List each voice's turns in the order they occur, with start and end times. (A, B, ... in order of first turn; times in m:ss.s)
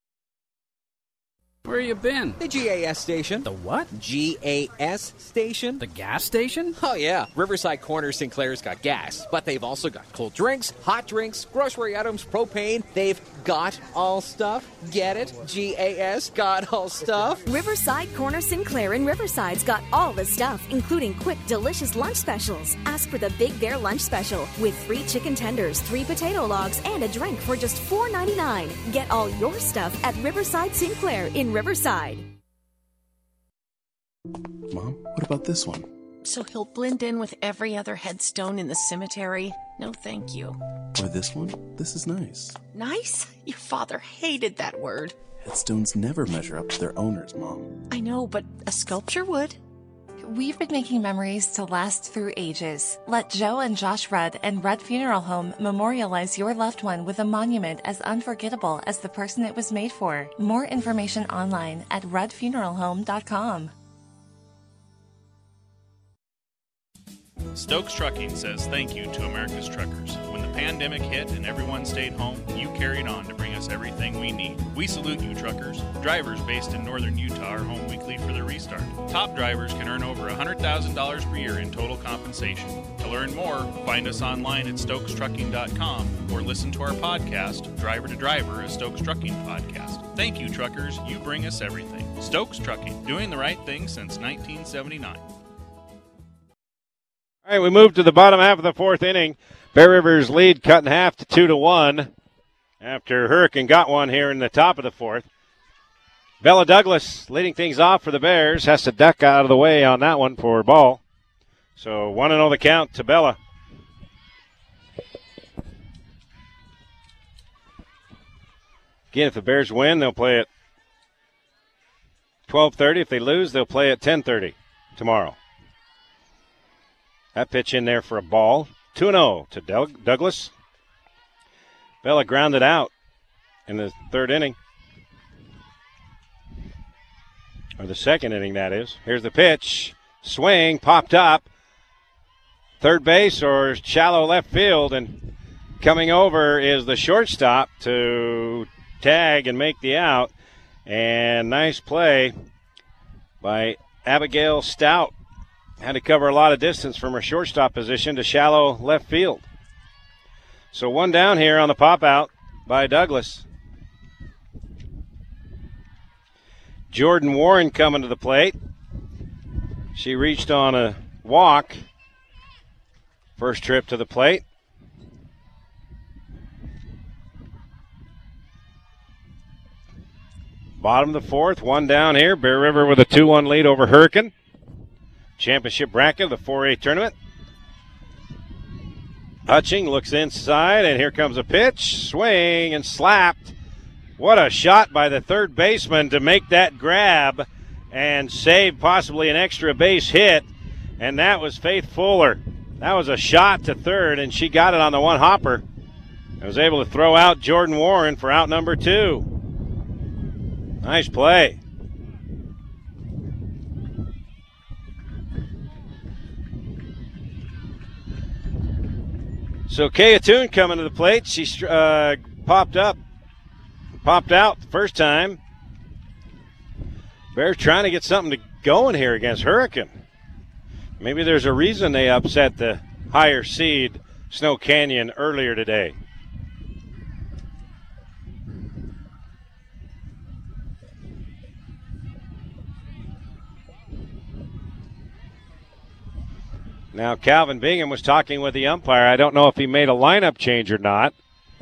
0:01.6-0:02.4 A
0:02.4-0:05.8 B
0:03.4-0:03.9 A
0:05.8-0:06.8 A
0:06.8-0:17.4 B
0:17.5-0:19.8 C
0:20.5-0:23.5 C
0:24.6-0:25.2 C
0:27.4-0:28.0 C
0:29.4-0:31.5 C
0:34.7-0:35.9 D
0:36.2-0:40.6 E
0:41.0-0:42.6 D
0:42.7-0:45.2 E
0:45.4-0:47.8 D
0:47.9-0:49.6 E
0:50.2-1:03.7 F
1:07.5-1:35.3 G
1:37.5-1:42.1 H
1:42.8-1:45.3 H
1:46.4-1:51.0 H
1:51.8-1:53.4 H
1:59.1-2:00.5 H
2:02.5-2:05.4 H
2:07.4-2:10.5 H
2:12.0-2:12.9 H
2:13.7-2:14.6 H
2:17.8-2:21.5 H
2:22.8-2:30.3 H
2:30.9-2:32.3 H
2:33.4-2:35.1 H
2:35.8-2:39.5 H
2:40.7-2:43.4 H
2:46.9-2:48.6 H
2:50.0-2:51.8 H
2:53.4-2:54.4 H
3:00.8-3:04.3 H
3:05.4-3:07.1 H
3:09.5-3:13.6 H
3:14.2-3:20.5 H
3:21.0-3:25.6 H
3:26.4-3:29.3 H
3:30.8-3:31.6 H
3:39.7-3:43.0 H
3:44.0-3:45.4 H
3:47.3-3:49.9 H
3:51.0-3:56.0 H
4:06.9-4:11.1 H